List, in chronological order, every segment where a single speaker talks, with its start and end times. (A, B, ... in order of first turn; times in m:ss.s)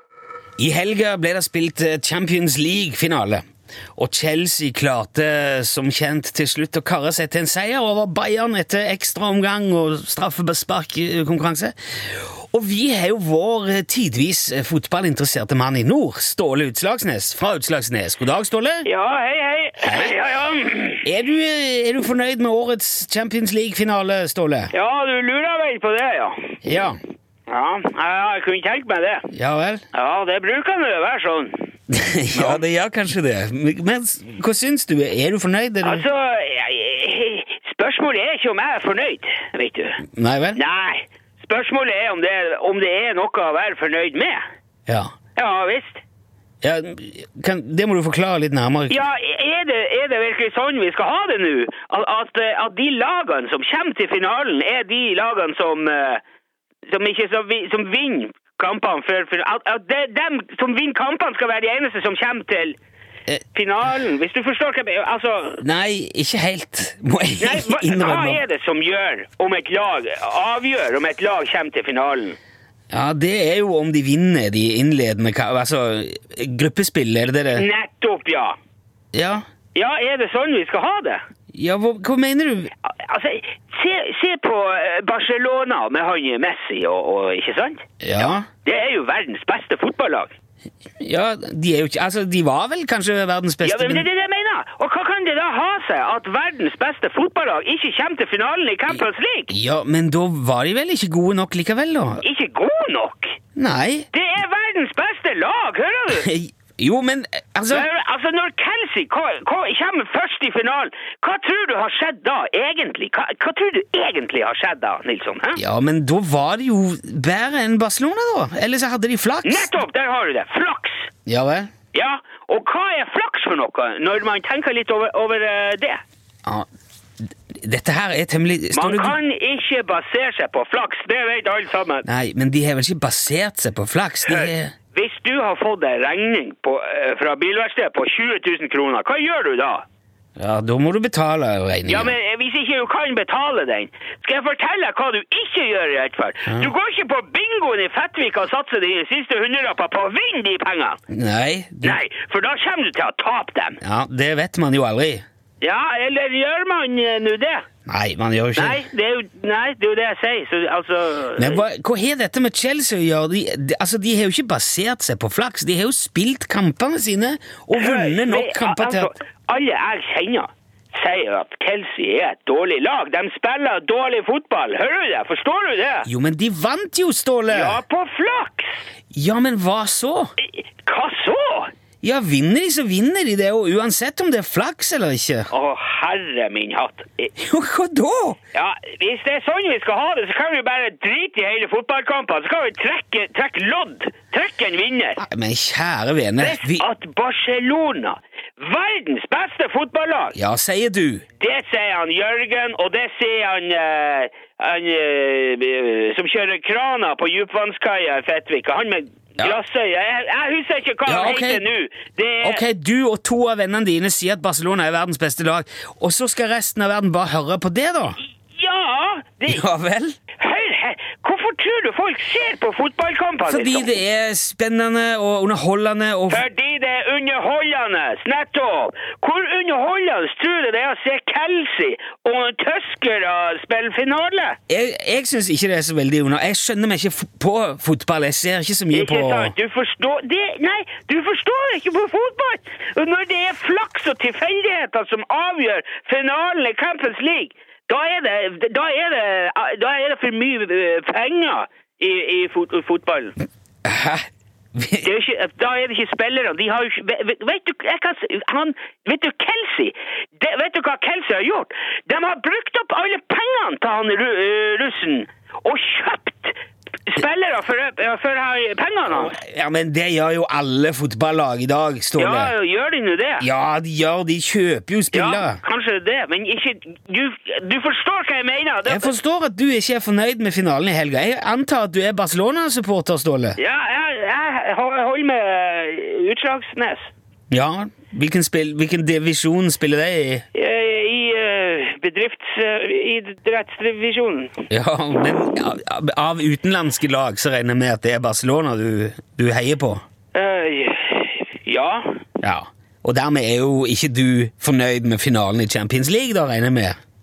0:00.6-0:03.4 A
0:04.0-0:18.9 A
0:18.8-0:21.0 B
0:19.8-0:20.1 A
0:21.0-0:24.7 A
0:24.7-0:26.6 B
0:26.6-0:27.0 A
0:27.5-0:29.3 B
0:29.3-0:29.8 A
0:29.9-0:31.7 B
0:31.9-0:36.0 A
0:32.3-0:32.6 B
0:35.8-0:44.4 B
0:40.1-0:40.6 A
0:45.3-0:46.0 B
0:46.6-0:49.0 A
0:48.9-0:56.2 B
0:56.9-1:02.8 B
1:03.5-1:05.7 B
1:05.6-1:08.4 A
1:07.4-1:12.4 B
1:12.9-1:17.7 A
1:17.6-1:18.6 B
1:19.1-1:19.4 A
1:19.8-1:21.2 B
1:21.5-1:22.7 A
1:22.8-1:30.3 B
1:28.0-1:28.4 A
1:31.0-1:34.1 A
1:33.6-1:39.5 B
1:38.9-1:42.2 A
1:42.2-1:43.4 B
1:43.6-1:44.1 A
1:44.1-1:46.3 B
1:46.1-1:47.9 A
1:47.7-1:55.6 B
1:55.6-1:59.7 A
1:59.4-2:01.1 B
2:01.3-2:01.7 A
2:01.9-2:06.0 B
2:07.5-2:09.2 A
2:08.7-2:12.0 B
2:12.0-2:14.7 A
2:14.3-2:19.8 B
2:20.4-2:22.1 A
2:21.9-2:31.0 B
2:26.4-2:26.7 A
2:31.1-2:32.0 A
2:31.8-2:33.8 B
2:33.8-2:35.2 A
2:35.6-2:37.7 B
2:37.8-2:38.8 A
2:38.6-2:41.6 B
2:41.4-2:49.1 A
2:47.7-2:56.1 B
2:56.0-2:57.8 A
2:57.5-2:58.8 B
2:59.1-3:00.3 A
3:00.4-3:01.7 B
3:02.0-3:05.5 A
3:05.5-3:07.3 B
3:07.4-3:08.4 A
3:08.5-3:15.2 B
3:15.2-3:16.8 A
3:16.4-3:20.4 B
3:20.3-3:21.2 A
3:21.4-3:32.6 B
3:31.0-3:31.7 A
3:32.4-3:38.2 A
3:38.5-3:39.6 B
3:39.4-3:40.2 A
3:40.4-3:43.9 B
3:43.4-3:46.4 A
3:46.3-3:54.6 B
3:54.7-3:59.5 A
3:58.9-4:13.3 B
4:13.8-4:15.1 A
4:15.0-4:26.6 B
4:27.1-4:29.3 B
4:29.1-4:32.5 A
4:32.2-4:33.5 B
4:33.4-4:35.6 A
4:35.1-4:39.1 B
4:38.8-4:43.6 A
4:43.6-4:47.1 B
4:47.5-4:50.4 A
4:50.5-4:54.6 B
4:54.7-5:00.0 A
5:00.3-5:02.2 B
5:02.4-5:07.0 A